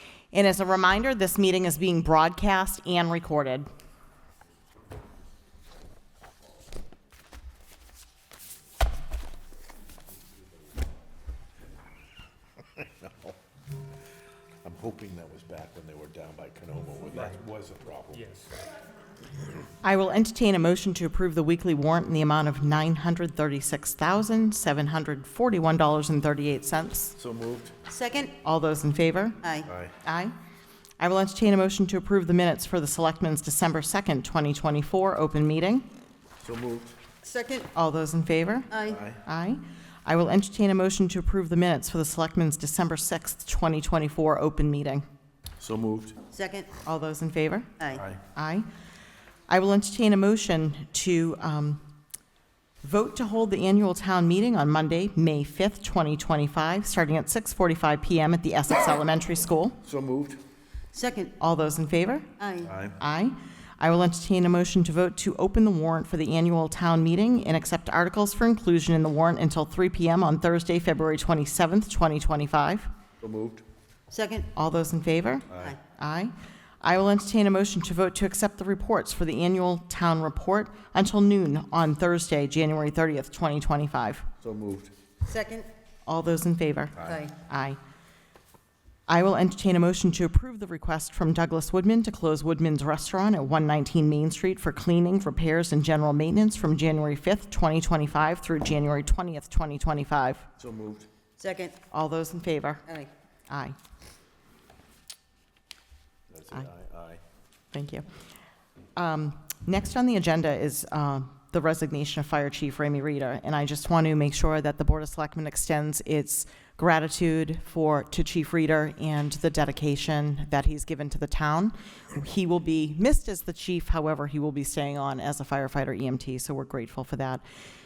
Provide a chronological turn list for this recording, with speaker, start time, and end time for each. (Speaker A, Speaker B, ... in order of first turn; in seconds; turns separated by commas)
Speaker A: 0.3-3.7, Speaker B: 12.8-13.4, Speaker B: 14.6-18.3, Speaker A: 19.8-27.1, Speaker B: 27.2-27.7, Speaker C: 27.9-28.3, Speaker A: 28.4-29.4, Speaker C: 29.4-29.7, Speaker B: 29.6-30.0, Speaker A: 30.0-30.3, Speaker A: 31.0-35.9, Speaker B: 36.4-37.0, Speaker C: 37.2-37.7, Speaker A: 37.7-38.7, Speaker C: 38.7-39.0, Speaker B: 38.8-39.2, Speaker A: 39.2-45.0, Speaker B: 45.6-46.2, Speaker C: 46.3-46.7, Speaker A: 46.8-47.7, Speaker C: 47.8-48.0, Speaker B: 47.9-48.2, Speaker A: 48.3-48.7, Speaker A: 49.5-51.9, Speaker A: 52.8-59.8, Speaker B: 59.8-60.4, Speaker C: 60.9-61.4, Speaker A: 61.4-62.3, Speaker C: 62.4-62.7, Speaker B: 62.6-63.0, Speaker A: 63.0-72.9, Speaker B: 73.2-73.6, Speaker C: 74.1-74.5, Speaker A: 74.5-84.2, Speaker B: 84.4-84.9, Speaker C: 85.2-85.7, Speaker A: 86.0-87.8, Speaker C: 87.0-87.3, Speaker A: 89.1-100.5, Speaker B: 100.6-101.1, Speaker C: 101.4-101.8, Speaker A: 101.9-102.8, Speaker C: 102.8-103.1, Speaker A: 103.5-103.8, Speaker B: 106.3-107.2, Speaker A: 107.7-108.1, Speaker A: 109.0-127.4